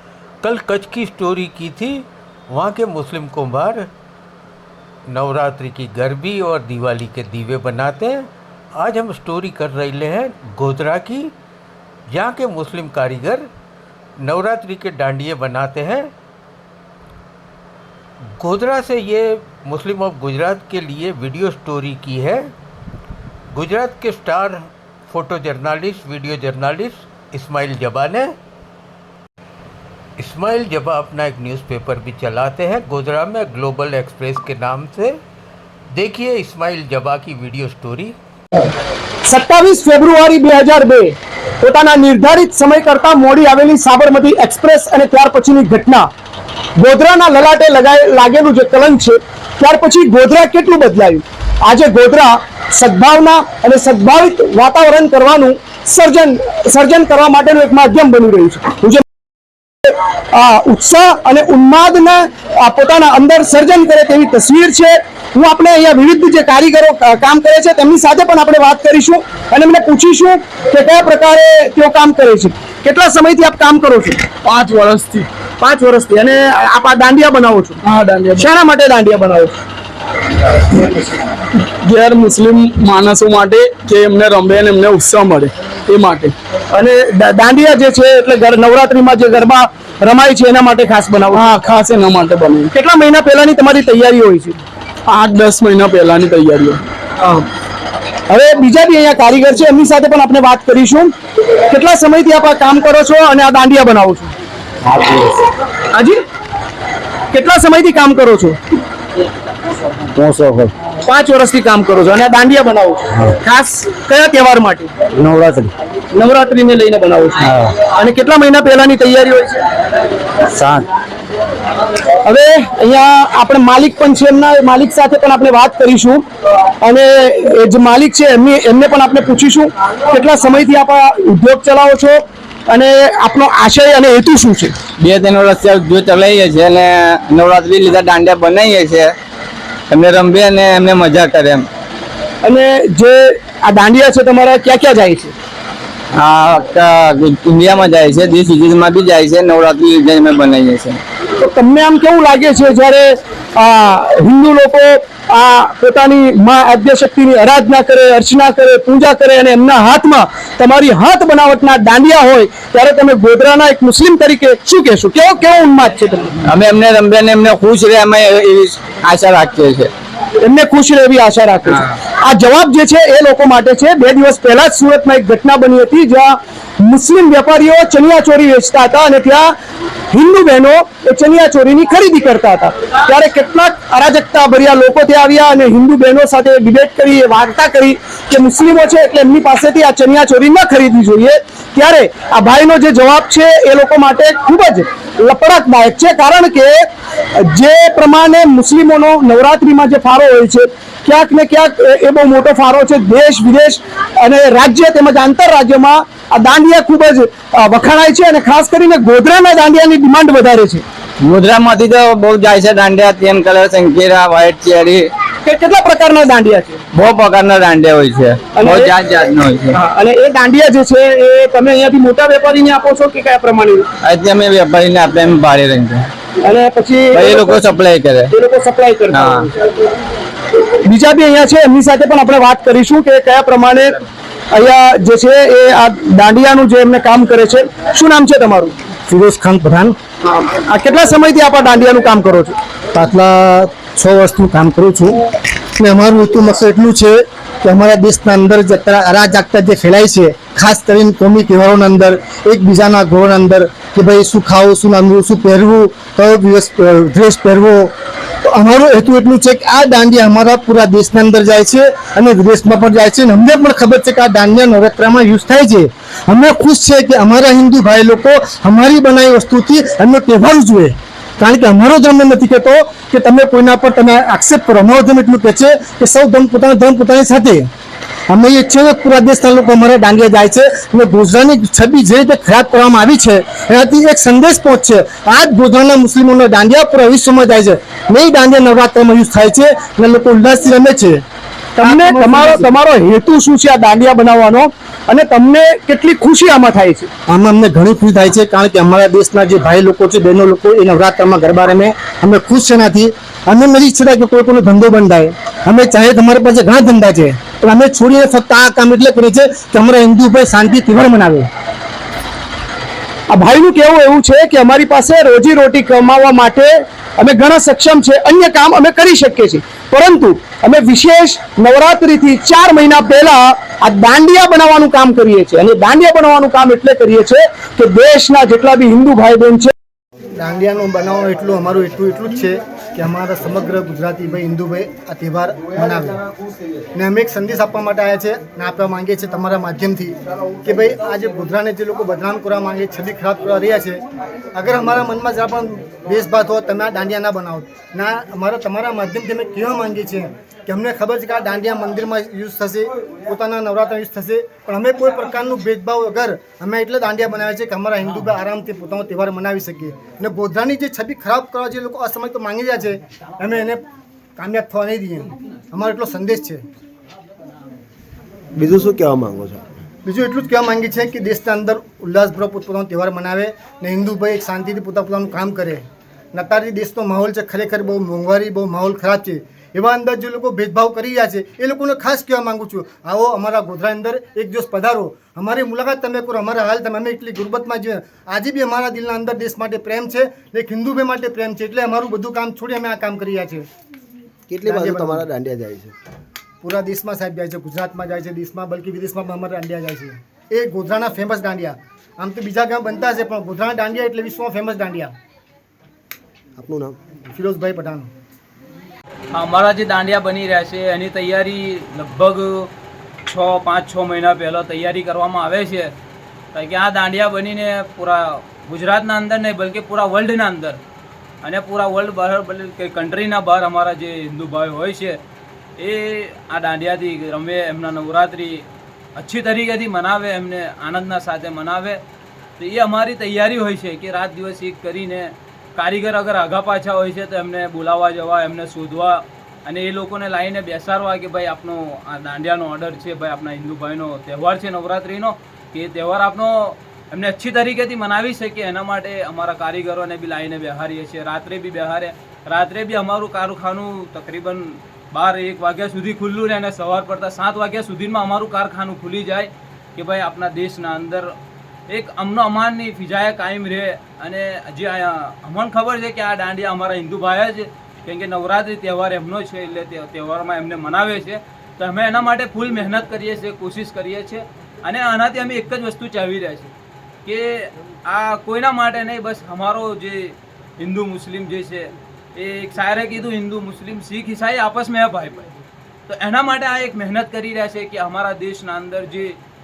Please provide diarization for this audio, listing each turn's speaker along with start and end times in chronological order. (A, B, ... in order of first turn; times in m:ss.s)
0:00.4-0:03.9 A
0:05.1-0:11.3 A
0:12.1-0:13.5 A
0:14.2-0:16.1 A
0:18.4-0:22.5 A
0:23.5-0:28.4 A
0:30.2-0:35.2 A
0:35.9-0:38.2 A
0:39.2-0:46.1 B
0:46.8-0:59.0 B
0:59.9-1:14.3 B
1:14.4-1:15.3 C
1:15.6-1:17.8 B
1:17.8-1:18.5 C
1:18.4-1:19.5 B
1:21.8-1:26.3 C
1:26.7-1:31.5 B
1:31.3-1:32.7 C
1:32.7-1:34.6 B
1:35.1-1:36.8 C
1:38.3-1:41.1 B
1:41.7-1:44.3 B
1:45.9-1:46.2 B
1:47.3-1:48.6 B
1:50.2-1:50.7 D
1:51.0-1:54.9 B
1:55.2-1:55.7 D
1:56.1-1:59.6 B
2:00.6-2:00.8 D
2:02.2-2:14.7 B
2:15.0-2:19.2 D
2:19.9-2:21.7 D
2:22.4-2:25.3 B
2:26.1-2:31.0 D
2:31.4-2:46.4 B
2:46.5-2:49.9 D
2:50.4-2:59.5 B
3:00.1-3:30.8 B
3:31.2-3:35.1 D
3:35.4-3:36.8 B
3:36.9-3:39.8 D
3:38.6-3:38.9 B
3:39.7-3:43.9 B
3:44.0-3:46.1 D
3:46.4-3:47.6 B
3:47.1-3:48.3 D
3:48.3-3:49.5 B
3:49.1-3:49.5 D
3:50.8-3:58.8 B
3:59.1-4:00.0 E
4:00.3-4:02.6 B
4:02.9-4:05.2 E
4:05.8-4:17.9 E
4:18.4-4:37.7 E
4:38.3-4:51.2 E
4:51.8-4:52.7 E
4:51.8-4:57.1 B
4:57.3-5:11.5 E
5:13.3-5:29.7 B
5:30.4-5:36.2 E
5:37.0-5:44.0 E
5:44.6-6:03.8 E
6:04.4-6:06.6 E
6:08.6-6:09.8 F
6:10.0-6:15.8 E
6:16.3-6:33.7 E
6:34.5-6:35.9 F
6:34.6-6:35.3 E
6:36.6-6:45.1 E
6:46.6-6:47.0 F
6:47.3-6:48.1 E
6:49.3-6:52.7 G
6:53.3-6:55.9 G
6:56.5-7:00.8 G
7:01.4-7:05.2 G
7:05.8-7:12.0 G
7:12.6-7:41.4 G
7:41.9-7:56.7 G
7:57.2-8:05.5 G
8:06.1-8:09.4 G